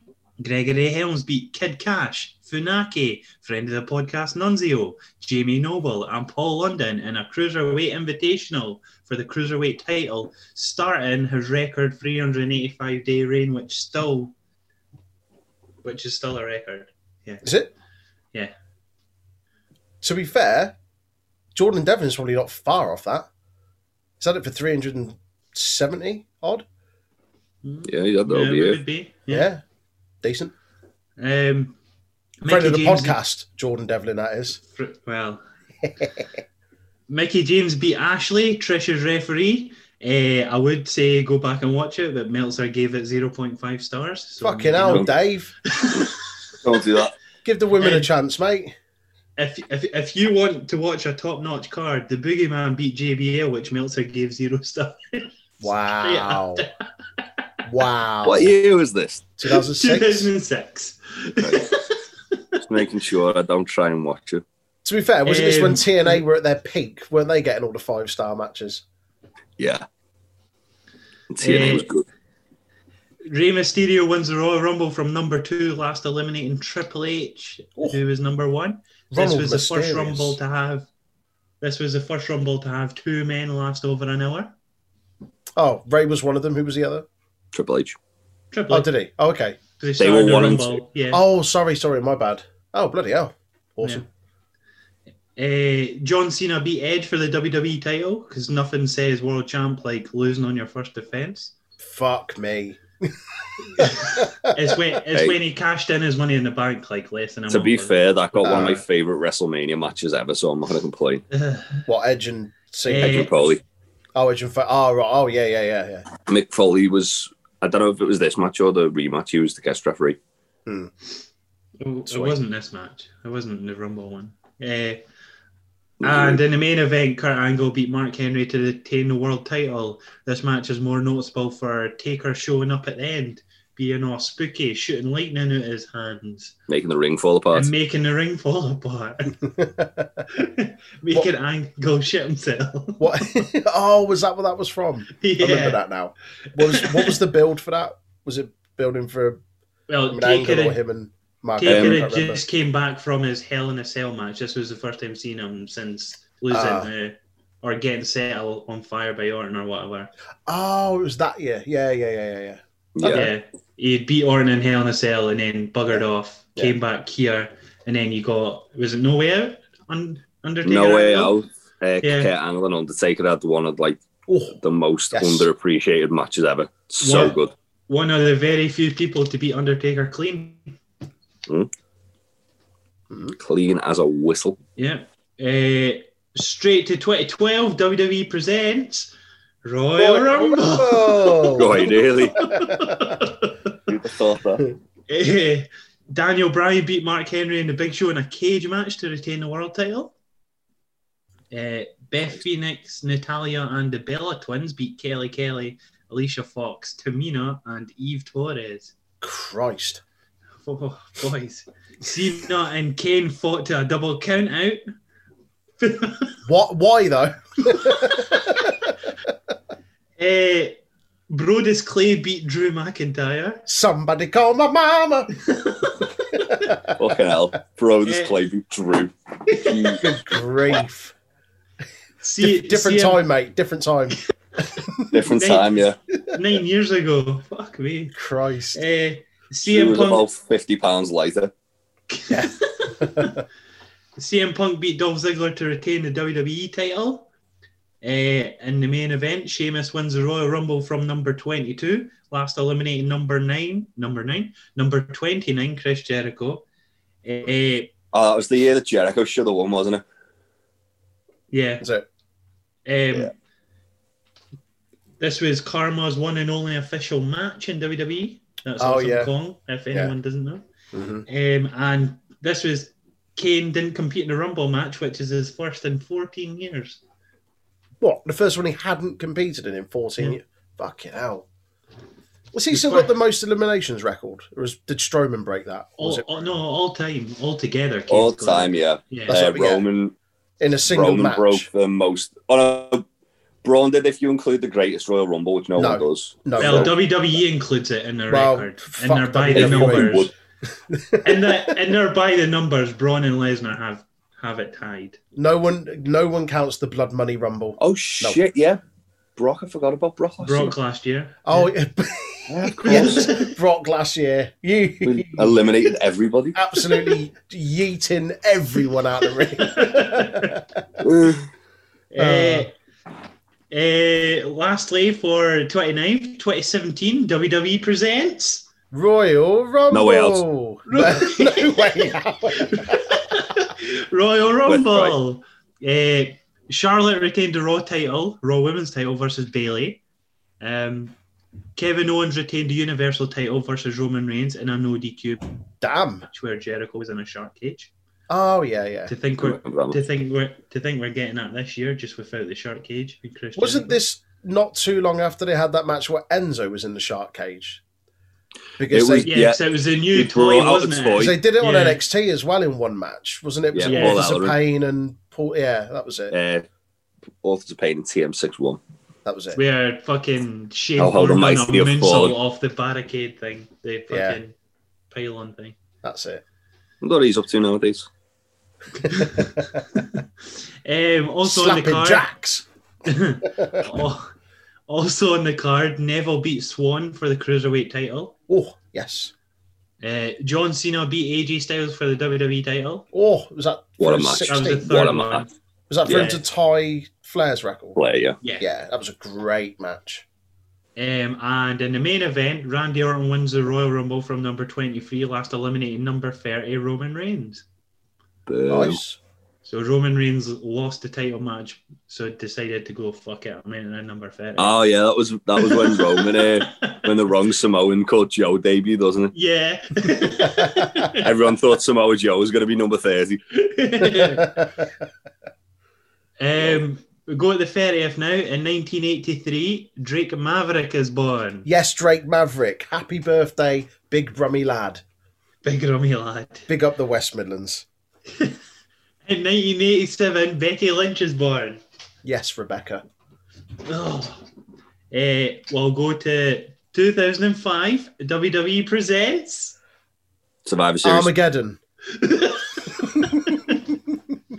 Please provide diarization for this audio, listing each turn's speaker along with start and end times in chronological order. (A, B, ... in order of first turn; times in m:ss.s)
0:00.4-0:14.3 A
0:15.8-0:17.4 A
0:17.4-0:17.7 B
0:20.0-0:20.8 B
0:21.5-0:23.3 B
0:24.2-0:26.6 B
0:27.6-0:29.5 A
0:27.8-0:28.8 C
0:29.3-0:29.6 B
0:30.2-0:30.5 B
0:31.2-0:31.8 A
0:32.4-0:33.2 A
0:32.5-0:34.6 B
0:34.7-0:35.4 A
0:37.1-0:45.1 A
0:44.4-0:45.5 B
0:45.7-0:46.2 A
0:46.6-0:47.1 C
0:47.4-0:48.7 B
0:47.7-0:48.1 A
0:49.4-0:55.3 A
0:55.6-0:56.6 B
0:56.0-0:56.7 A
0:57.6-0:58.5 B
0:58.2-0:59.2 C
0:59.4-1:00.3 B
0:59.5-1:02.6 A
1:01.4-1:01.7 C
1:02.6-1:04.4 C
1:04.8-1:08.8 B
1:05.2-1:06.2 A
1:09.6-1:09.8 C
1:11.3-1:12.1 C
1:11.4-1:11.9 A
1:13.3-1:20.9 A
1:19.1-1:20.4 B
1:21.6-1:24.5 A
1:25.6-1:27.0 B
1:27.5-1:28.0 C
1:28.5-1:28.9 A
1:28.7-1:29.6 B
1:29.8-1:31.2 A
1:30.0-1:30.8 C
1:31.1-1:34.0 B
1:35.4-1:41.5 A
1:41.8-1:44.5 B
1:43.8-1:48.0 A
1:45.1-1:45.4 C
1:47.5-1:51.2 C
1:48.4-1:48.8 B
1:51.3-1:51.8 A
1:51.9-1:53.3 B
1:52.9-1:53.3 A
1:53.0-1:53.6 C
1:54.1-1:56.1 B
1:56.3-2:00.2 C
2:00.6-2:00.9 B
2:01.8-2:05.0 A
2:02.0-2:02.3 C
2:06.0-2:06.4 C
2:06.0-2:16.6 A
2:16.7-2:17.7 C
2:17.5-2:19.4 A
2:19.4-2:20.2 B
2:20.3-2:23.4 A
2:23.0-2:29.4 B
2:25.2-2:25.8 A
2:26.6-2:27.2 A
2:29.9-2:30.8 A
2:30.1-2:32.4 B
2:31.6-2:40.1 A
2:31.6-2:32.0 C
2:36.5-2:36.9 B
2:40.5-2:43.3 B
2:43.0-2:43.3 C
2:43.1-2:51.4 A
2:50.6-2:54.0 C
2:52.0-2:52.3 A
2:54.3-2:54.6 B
2:54.6-2:57.5 C
2:55.1-2:55.5 B
2:57.0-3:00.8 A
3:03.1-3:03.4 B
3:03.4-3:04.6 C
3:04.8-3:09.1 A
3:09.6-3:13.8 A
3:10.0-3:13.2 B
3:11.6-3:12.4 C
3:13.8-3:14.6 C
3:15.1-3:20.1 A
3:21.5-3:28.9 A
3:29.2-3:30.0 B
3:30.6-3:34.8 A
3:35.8-3:36.4 A
3:36.4-3:38.8 B
3:37.8-3:38.2 A
3:40.2-3:43.6 A
3:43.7-3:45.3 B
3:45.5-3:46.1 A
3:46.3-3:47.0 B
3:47.0-3:50.0 C
3:48.0-3:48.4 A
3:49.5-3:50.0 A
3:50.0-3:51.1 B
3:52.2-3:53.2 A
3:52.4-3:54.2 B
3:54.8-3:55.1 B
3:55.1-3:56.0 C
3:55.3-3:58.2 A
3:58.1-3:58.8 B
3:58.7-4:00.2 A
3:59.6-4:01.5 C
4:02.1-4:03.4 A
4:02.3-4:03.4 B
4:04.2-4:07.3 A
4:08.0-4:16.6 A
4:17.2-4:17.9 A
4:18.1-4:20.0 C
4:21.5-4:21.8 A
4:21.8-4:22.0 B
4:22.8-4:23.3 A
4:25.2-4:30.6 A
4:28.8-4:29.3 B
4:30.9-4:31.2 B
4:31.3-4:37.0 A
4:38.0-4:41.4 B
4:42.5-4:46.5 B
4:42.7-4:43.1 A
4:46.0-4:49.4 A
4:48.1-4:50.1 C
4:49.3-4:49.8 B
4:50.6-4:51.7 B
4:50.9-4:53.0 C
4:53.6-4:56.9 C
4:55.8-4:56.9 B
4:56.6-5:00.3 A
4:58.3-5:00.3 B
4:59.5-5:00.3 C
5:00.9-5:01.8 B
5:01.2-5:05.2 A
5:05.4-5:08.4 B
5:07.8-5:08.8 C
5:09.4-5:10.7 C
5:10.4-5:11.7 A
5:11.4-5:15.6 B
5:12.5-5:13.1 C
5:12.8-5:13.5 A
5:15.0-5:16.6 C
5:16.5-5:20.9 B
5:19.5-5:20.5 A
5:21.0-5:21.5 C
5:22.1-5:22.7 A
5:22.2-5:22.7 B
5:23.7-5:28.6 A
5:28.9-5:33.2 B
5:29.9-5:30.4 C
5:30.9-5:40.0 A
5:34.7-5:35.2 C
5:40.6-5:41.1 A
5:41.8-5:45.4 A
5:45.8-5:46.3 B
5:46.3-5:47.9 A
5:48.3-5:49.1 B
5:49.1-5:54.0 A
5:49.4-5:50.0 C
5:53.6-5:57.8 B
5:58.8-5:59.3 B
5:58.9-5:59.6 C
5:59.2-6:02.0 A
6:00.1-6:01.3 C
6:01.2-6:06.3 B
6:03.7-6:04.6 C
6:03.9-6:04.2 A
6:06.3-6:06.6 C
6:07.4-6:08.8 C
6:09.2-6:09.6 B
6:09.5-6:14.5 A
6:11.0-6:12.4 C
6:14.1-6:14.4 B
6:15.1-6:15.8 A
6:16.0-6:16.4 B
6:17.0-6:18.1 C
6:19.0-6:19.5 B
6:19.0-6:20.2 A
6:20.8-6:22.2 A
6:21.4-6:22.6 B
6:23.0-6:24.3 A
6:23.4-6:23.8 B
6:24.9-6:28.3 A
6:28.5-6:29.3 B
6:30.0-6:33.0 A
6:33.1-6:34.9 B
6:34.0-6:35.4 C
6:34.5-6:35.5 A
6:35.9-6:38.0 B
6:36.0-6:36.4 C
6:36.0-6:36.4 A
6:38.0-6:38.4 C
6:38.6-6:40.2 B
6:41.0-6:47.6 A
6:48.5-6:49.0 C
6:48.7-6:49.2 B
6:49.6-6:54.7 A
6:54.6-6:59.3 C
6:55.6-6:57.1 A
6:59.3-7:01.3 A
7:00.5-7:00.9 B
7:01.2-7:03.4 C
7:03.5-7:04.6 A
7:04.1-7:04.9 B
7:06.4-7:11.6 A
7:11.6-7:15.0 B
7:15.6-7:16.7 A
7:16.7-7:17.8 B
7:19.2-7:21.8 A
7:22.2-7:23.0 B
7:23.8-7:24.4 A
7:25.1-7:29.8 A
7:30.6-7:31.3 C
7:31.0-7:31.8 B
7:32.1-7:33.7 A
7:33.0-7:33.6 B